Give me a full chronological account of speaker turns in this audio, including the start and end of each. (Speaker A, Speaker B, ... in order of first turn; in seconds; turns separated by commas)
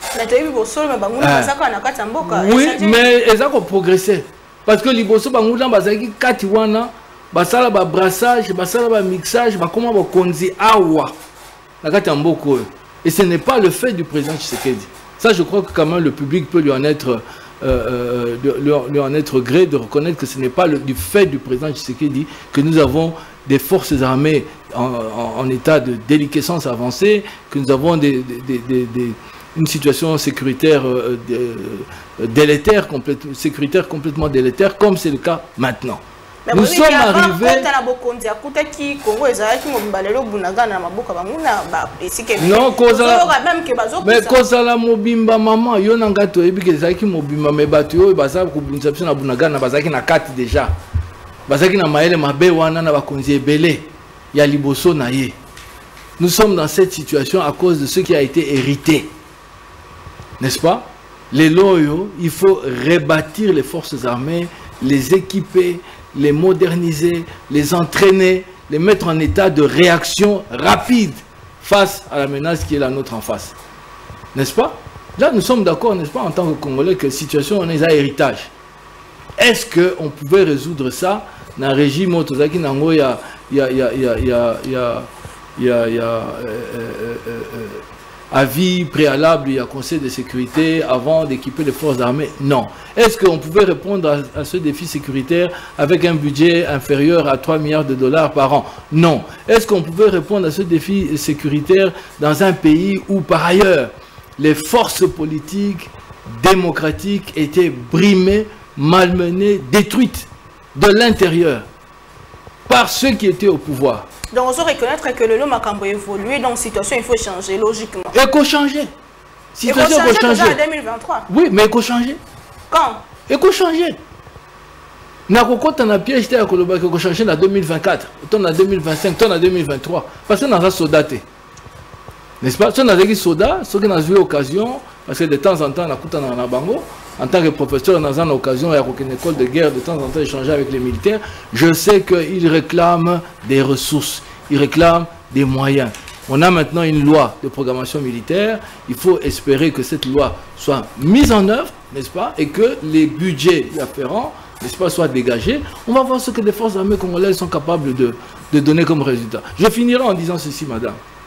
Speaker A: 0.1-3.0, Speaker B: 1.2-1.5, Speaker B: 2.2-11.1, Speaker B: 11.8-37.7, Speaker A: 36.5-44.4, Speaker B: 42.4-43.3, Speaker B: 44.0-50.8, Speaker B: 51.5-55.4, Speaker B: 56.2-59.1, Speaker B: 60.4-73.5, Speaker B: 74.3-78.5, Speaker B: 79.4-111.7, Speaker B: 112.7-114.1, Speaker A: 114.3-118.1, Speaker B: 118.1-118.9, Speaker B: 119.5-120.6, Speaker A: 119.6-121.3, Speaker B: 121.3-122.2, Speaker A: 122.7-123.1, Speaker B: 123.3-124.0, Speaker B: 125.3-131.2, Speaker B: 132.4-161.0